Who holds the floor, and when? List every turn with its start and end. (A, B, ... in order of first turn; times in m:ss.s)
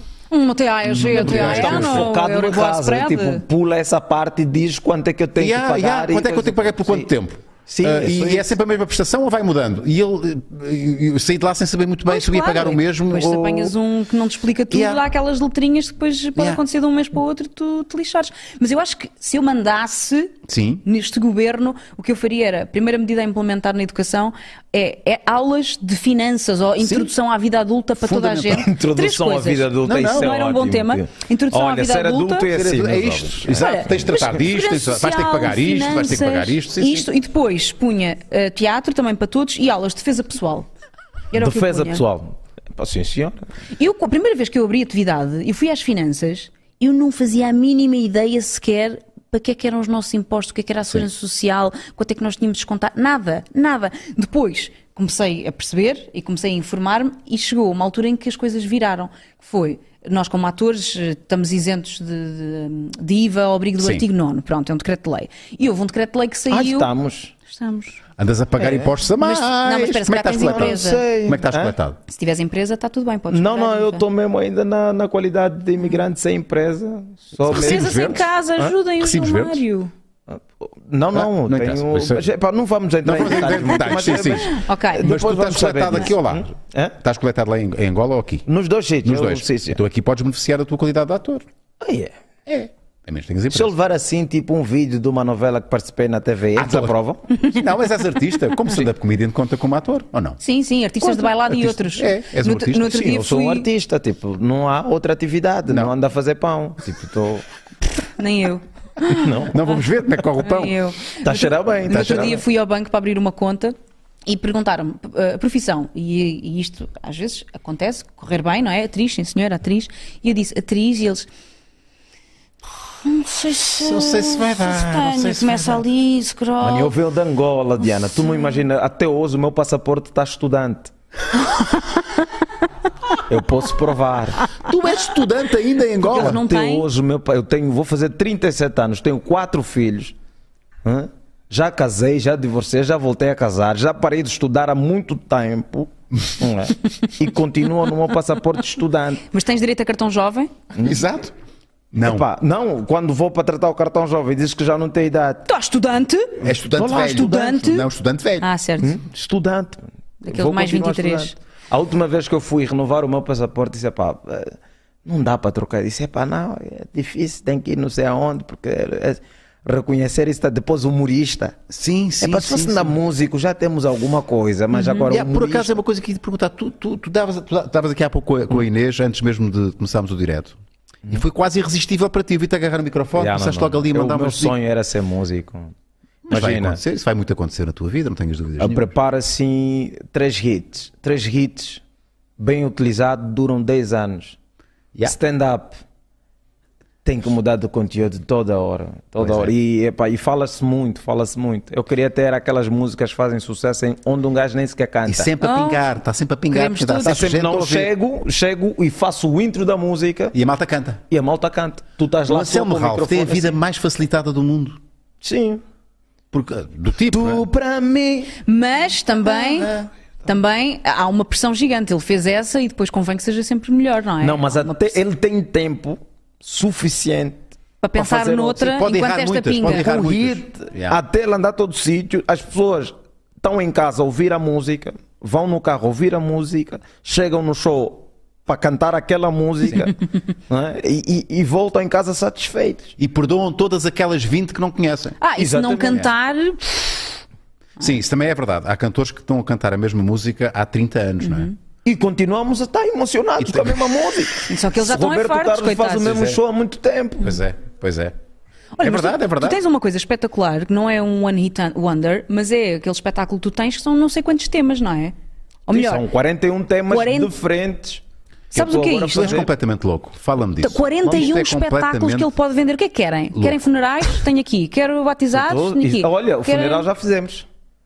0:00.3-0:03.4 A
0:00.8-0:02.1 B
0:01.1-0:07.1 C
0:05.4-0:13.8 B
0:07.7-0:08.5 C
0:12.1-0:32.5 A
0:14.7-0:15.0 B
0:16.4-0:16.6 B
0:20.5-0:20.8 B
0:26.8-0:27.1 B
0:28.0-0:28.7 B
0:28.5-0:34.0 C
0:29.9-0:30.3 B
0:32.5-0:37.1 B
0:33.5-0:40.7 A
0:41.3-0:42.0 A
0:41.4-0:43.4 C
0:43.8-1:06.9 A
1:03.8-1:04.1 B
1:06.5-1:07.3 C
1:07.4-1:08.0 A
1:08.2-1:12.0 B
1:08.6-1:08.9 C
1:09.2-1:11.0 A
1:10.4-1:11.8 C
1:12.1-1:14.0 A
1:13.3-1:18.7 C
1:17.4-1:18.3 B
1:17.5-1:19.9 A
1:19.0-1:19.6 B
1:20.3-1:27.0 C
1:21.1-1:22.3 B
1:23.0-1:28.5 B
1:23.6-1:25.1 A
1:28.5-1:29.8 C
1:29.0-1:31.4 B
1:31.8-1:32.1 C
1:32.5-1:33.7 B
1:33.5-1:37.3 C
1:36.6-1:40.4 B
1:40.4-1:43.7 A
1:41.0-1:43.0 B
1:42.8-1:47.5 C
1:45.7-1:45.9 B
1:48.2-1:49.5 A
1:49.1-1:49.6 C
1:49.5-1:50.8 B
1:50.4-2:01.3 A
1:51.2-1:52.4 C
1:51.9-1:52.3 B
2:03.0-2:07.0 A
2:03.8-2:05.8 B
2:06.6-2:10.9 C
2:13.3-2:14.5 C
2:14.6-2:16.4 B
2:16.0-2:16.8 A
2:16.1-2:20.1 C
2:20.8-2:29.2 C
2:29.3-2:30.5 A
2:30.8-2:31.3 B
2:31.9-2:32.3 B
2:32.0-2:35.5 C
2:35.5-2:37.9 A
2:36.4-2:38.5 B
2:36.5-2:37.6 C
2:38.4-2:39.0 A
2:38.8-2:51.6 C
2:40.2-2:41.3 A
2:51.7-2:53.0 B
2:52.2-2:55.8 C
2:54.7-2:55.1 A
2:55.1-3:00.6 B
3:01.1-3:04.6 B
3:03.2-3:05.7 C
3:06.3-3:08.9 B
3:06.3-3:06.8 C
3:08.6-3:11.8 C
3:12.4-3:14.4 C
3:15.0-3:15.8 C
3:17.0-3:25.3 C
3:19.2-3:19.5 B
3:25.1-3:27.9 B
3:25.4-3:25.9 A
3:26.5-3:27.2 A
3:27.0-3:30.4 C
3:30.3-3:31.0 B
3:31.1-3:33.6 C
3:32.3-3:34.8 B
3:35.2-3:35.6 C
3:36.3-3:37.4 B
3:37.1-3:38.4 C
3:38.4-3:39.7 A
3:39.3-3:39.9 B
3:40.2-3:45.0 A
3:44.2-3:47.4 C
3:47.8-3:49.9 A
3:48.0-3:48.7 C
3:48.6-3:51.0 B
3:49.6-4:03.0 C
4:03.0-4:05.2 B
4:05.2-4:07.2 A
4:05.4-4:06.1 C
4:07.8-4:11.5 B
4:11.2-4:11.6 A
4:11.8-4:17.3 C
4:13.4-4:13.8 B
4:14.5-4:16.4 A
4:17.2-4:18.2 B
4:18.8-4:25.1 A
4:18.8-4:19.6 B
4:25.7-4:26.0 A
4:25.7-4:29.5 C
4:26.9-4:27.3 A
4:28.5-4:29.4 A
4:29.1-4:32.3 B
4:30.6-4:36.9 A
4:35.3-4:37.5 C